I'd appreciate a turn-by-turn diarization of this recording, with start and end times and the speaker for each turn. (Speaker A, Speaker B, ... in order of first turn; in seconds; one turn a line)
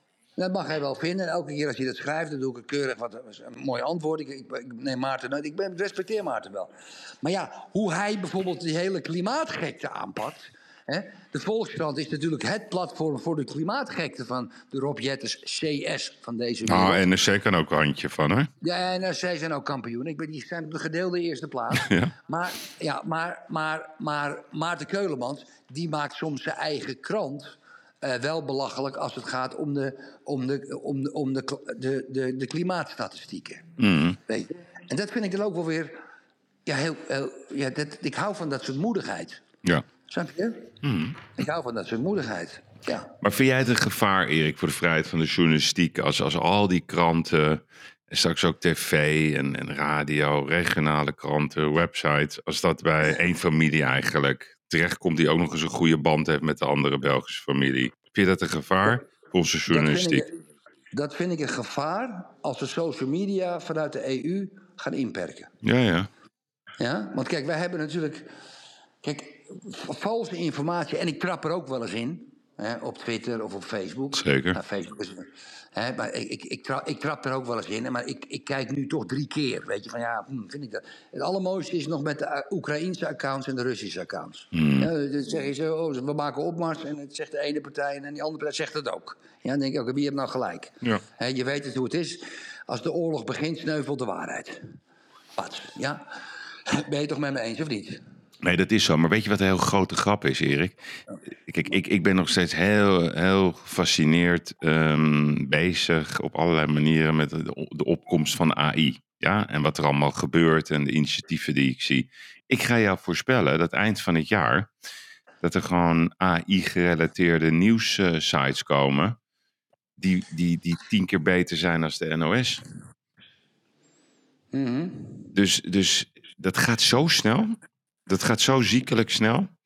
Speaker A: 0.4-17.1
Speaker B: 16.6-18.5
Speaker A: 18.6-33.7
Speaker B: 21.7-22.1
Speaker B: 33.8-34.2
Speaker A: 34.3-36.0
Speaker A: 36.7-39.4
Speaker A: 40.1-40.7
Speaker B: 40.8-41.2
Speaker A: 41.4-43.1
Speaker B: 43.2-60.3
Speaker A: 59.7-60.4
Speaker A: 60.9-65.5
Speaker B: 65.6-66.1
Speaker A: 66.8-68.3
Speaker A: 69.0-94.6
Speaker B: 74.1-74.6
Speaker B: 84.5-84.9
Speaker A: 95.4-96.0
Speaker A: 96.7-98.0
Speaker B: 98.4-100.8
Speaker B: 101.5-114.7
Speaker B: 115.4-119.2
Speaker B: 120.0-122.6
Speaker A: 124.5-125.3
Speaker B: 125.3-129.5